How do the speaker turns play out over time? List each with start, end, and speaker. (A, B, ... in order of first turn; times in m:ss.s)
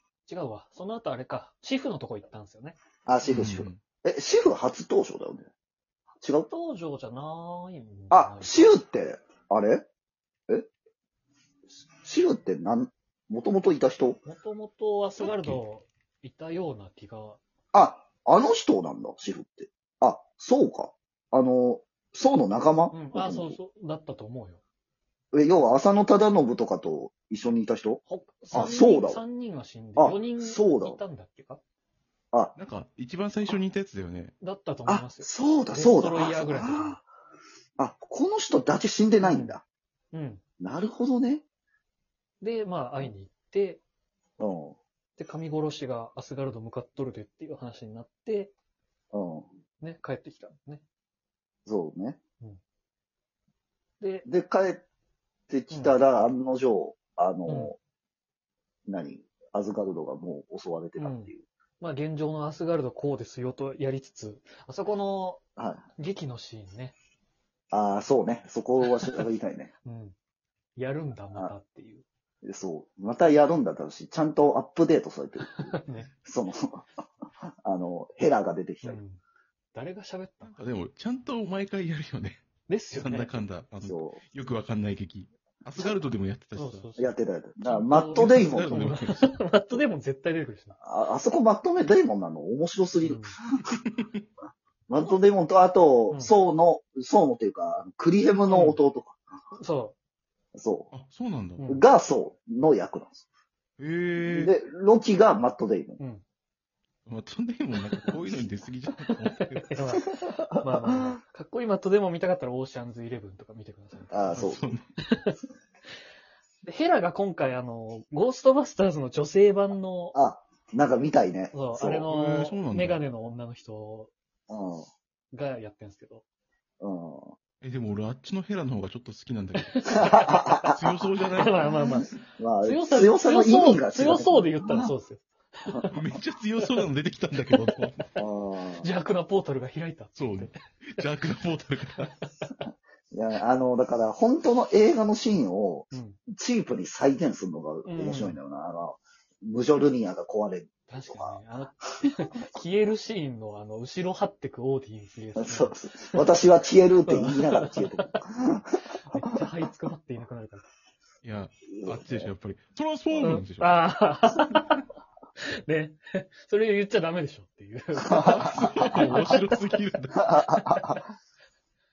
0:00.3-0:02.8 A
0:03.1-0:05.5 B
0:03.3-0:03.8 C
0:06.2-0:08.7 A
0:06.2-0:06.5 B
0:08.1-0:09.8 B
0:12.0-0:14.2 B
0:14.2-0:17.4 A
0:15.2-0:15.6 C
0:17.7-0:23.6 B
0:22.9-0:24.6 A
0:25.3-0:28.0 B
0:28.1-0:31.6 A
0:28.5-0:29.2 B
0:30.0-0:31.0 B
0:32.6-0:34.3 C
0:34.4-0:37.0 A
0:34.9-0:37.0 B
0:37.8-0:39.6 B
0:39.2-0:39.6 A
0:40.1-0:40.4 A
0:40.6-0:41.4 B
0:42.4-0:43.8 A
0:44.4-0:44.8 B
0:45.2-0:48.5 A
0:49.1-0:49.5 B
0:49.8-0:50.8 A
0:51.7-0:52.2 B
0:54.0-0:54.3 A
0:54.3-0:54.8 B
0:55.5-0:57.8 B
0:55.7-0:56.0 A
0:57.5-0:57.7 A
0:58.9-1:01.4 B
1:01.0-1:05.4 A
1:05.6-1:05.8 B
1:06.0-1:07.0 A
1:07.7-1:09.7 B
1:09.8-1:10.2 A
1:10.8-1:12.0 A
1:12.4-1:15.7 B
1:15.5-1:16.1 A
1:16.2-1:16.9 B
1:17.6-1:19.0 B
1:18.8-1:19.2 A
1:19.7-1:20.6 A
1:20.4-1:26.9 C
1:22.7-1:23.4 A
1:23.8-1:24.2 B
1:26.6-1:30.8 A
1:27.0-1:28.8 B
1:28.1-1:29.8 C
1:30.8-1:33.3 B
1:33.0-1:33.4 A
1:33.7-1:34.2 C
1:34.9-1:39.2 B
1:38.5-1:38.8 A
1:39.6-1:40.0 A
1:40.6-1:40.9 B
1:40.9-1:41.7 C
1:41.6-1:41.8 A
1:41.7-1:43.2 B
1:43.8-1:44.5 C
1:44.2-1:46.0 B
1:46.0-1:46.2 A
1:47.1-1:50.0 C
1:49.1-1:54.4 A
1:50.0-1:51.1 B
1:54.1-1:54.7 B
1:54.3-1:54.9 C
1:55.1-1:55.4 A
1:56.6-2:00.2 A
2:00.1-2:02.1 B
2:01.5-2:04.1 A
2:02.1-2:03.0 C
2:04.5-2:04.9 B
2:05.3-2:06.2 A
2:06.8-2:07.4 B
2:07.6-2:10.0 C
2:09.6-2:10.6 A
2:09.9-2:10.8 B
2:10.7-2:11.8 C
2:11.3-2:12.1 A
2:12.3-2:14.9 B
2:12.6-2:16.0 A
2:15.9-2:18.2 C
2:16.6-2:16.9 A
2:18.2-2:18.9 B
2:18.8-2:21.1 A
2:20.2-2:22.1 C
2:22.0-2:22.6 A
2:23.1-2:31.4 B
2:25.9-2:26.2 A
2:27.8-2:28.4 A
2:30.9-2:35.8 A
2:35.4-2:38.8 B
2:37.1-2:38.1 A
2:39.0-2:40.7 A
2:41.2-2:43.8 C
2:41.7-2:42.3 B
2:43.2-2:44.8 A
2:45.6-2:49.6 A
2:48.1-2:49.3 B
2:48.2-2:50.2 C
2:50.2-2:51.0 B
2:50.4-2:51.0 A